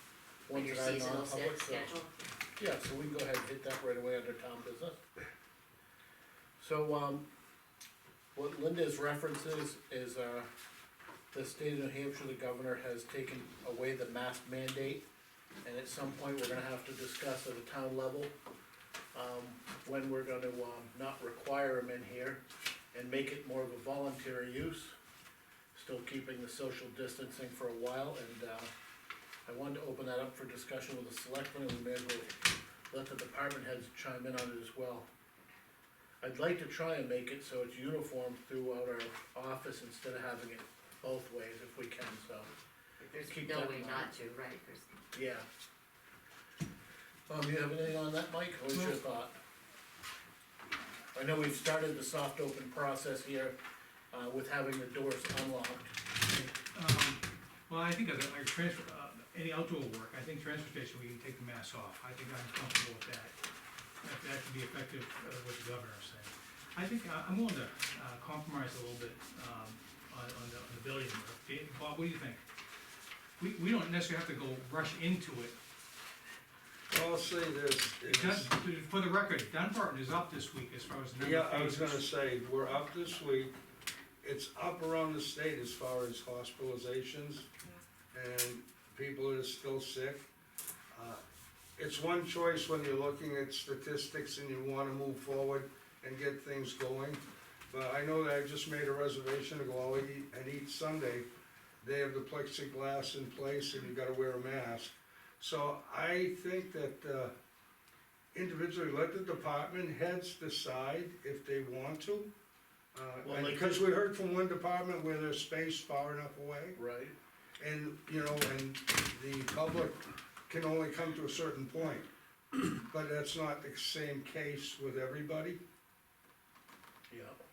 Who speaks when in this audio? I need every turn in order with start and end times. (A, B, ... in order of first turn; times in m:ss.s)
0:00.5-0:01.9 A
0:00.5-0:02.1 B
0:02.6-0:05.0 A
0:06.6-0:07.3 A
0:08.4-0:10.5 A
0:11.3-0:15.0 A
0:15.6-0:18.3 A
0:19.1-0:25.0 A
0:25.7-0:28.7 A
0:29.5-0:35.1 A
0:36.2-0:42.5 A
0:43.0-0:44.9 B
0:43.2-0:44.1 A
0:45.1-0:45.5 A
0:47.3-0:49.4 A
0:48.7-0:49.0 C
0:51.1-0:53.6 A
0:54.1-0:56.0 A
0:56.3-1:03.4 C
1:04.0-1:12.4 C
1:13.4-1:15.6 C
1:16.9-1:18.5 D
1:18.0-1:22.0 C
1:21.2-1:23.5 D
1:24.2-1:27.5 D
1:28.1-1:30.2 D
1:30.9-1:31.2 D
1:31.8-1:41.3 D
1:41.8-1:47.3 D
1:48.3-1:52.3 D
1:52.9-1:56.8 D
1:53.2-1:53.8 A
1:56.8-1:57.2 A
1:57.6-2:02.1 D
2:02.6-2:05.6 D
2:07.1-2:07.4 A